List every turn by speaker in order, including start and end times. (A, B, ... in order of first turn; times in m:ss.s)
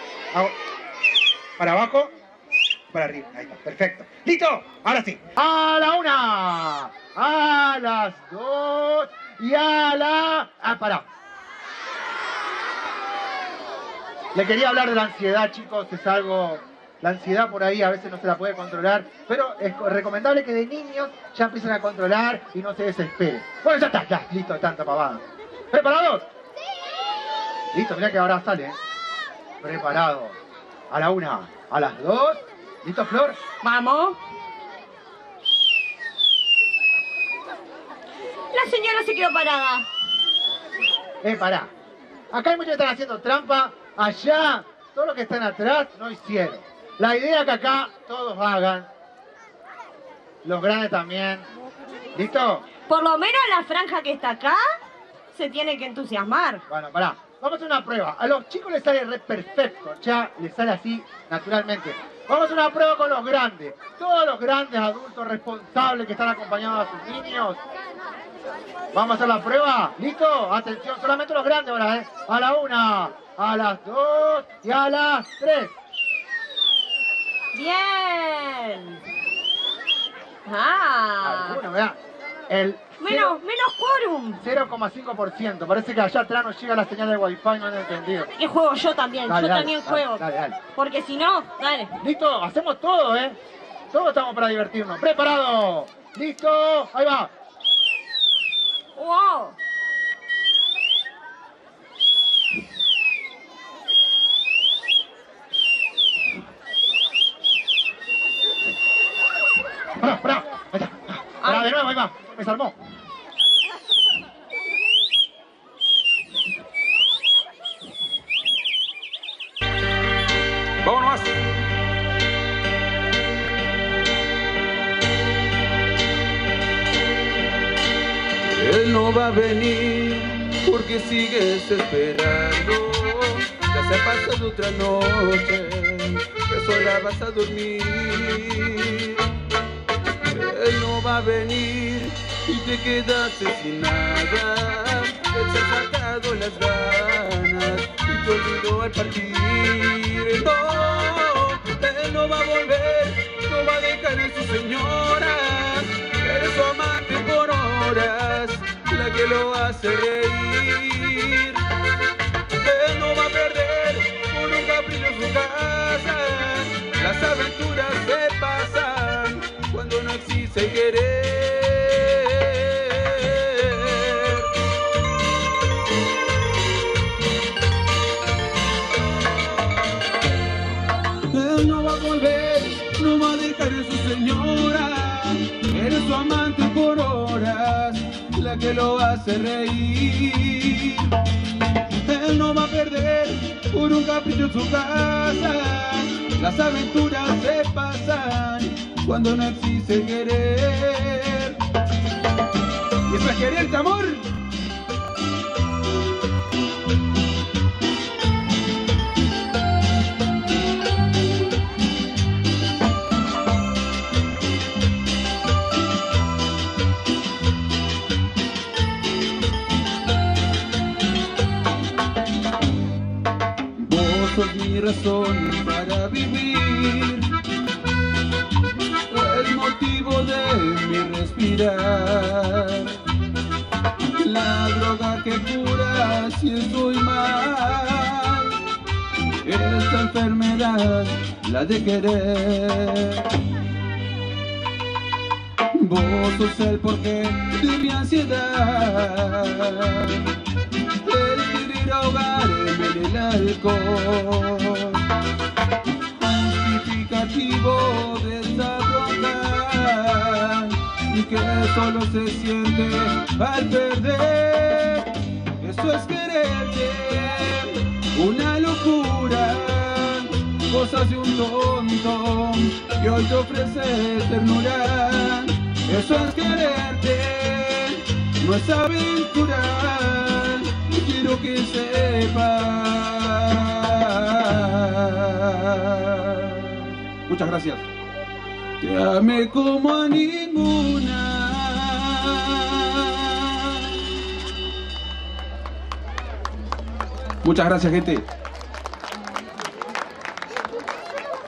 0:01.6-0:02.1 A
0:02.9-0:11.0 A
0:14.3-0:26.2 A
0:27.7-0:28.8 A
0:29.6-0:30.4 A
0:30.9-0:33.4 A
0:33.6-0:34.2 B
0:38.5-0:39.9 B
0:41.2-0:41.7 A
0:42.3-0:48.9 A
0:50.4-0:51.5 A
0:52.1-0:52.6 A
0:52.9-0:54.8 B
0:55.3-0:56.6 B
0:56.7-1:07.6 A
1:08.9-1:15.7 A
1:17.5-1:19.0 B
1:20.4-1:21.6 B
1:21.2-1:22.0 A
1:22.5-1:23.4 A
1:23.0-1:24.4 B
1:24.4-1:28.3 A
1:28.3-1:32.0 B
1:29.2-1:30.6 A
1:32.0-1:33.4 A
1:33.9-1:37.3 A
1:39.0-1:39.6 B
1:50.0-1:52.7 A
2:00.8-2:01.3 C
2:08.4-2:19.3 C
2:20.2-2:41.6 C
2:42.6-2:54.5 C
3:01.3-3:11.1 C
3:12.0-3:21.6 C
3:23.0-3:24.3 C
3:43.8-3:47.3 C
3:49.1-3:53.0 C
3:54.2-3:58.6 C
3:59.4-4:03.3 C
4:05.7-4:10.4 C
4:11.0-4:15.0 C
4:16.2-4:47.8 C
4:48.8-4:54.0 C
4:57.4-4:58.2 C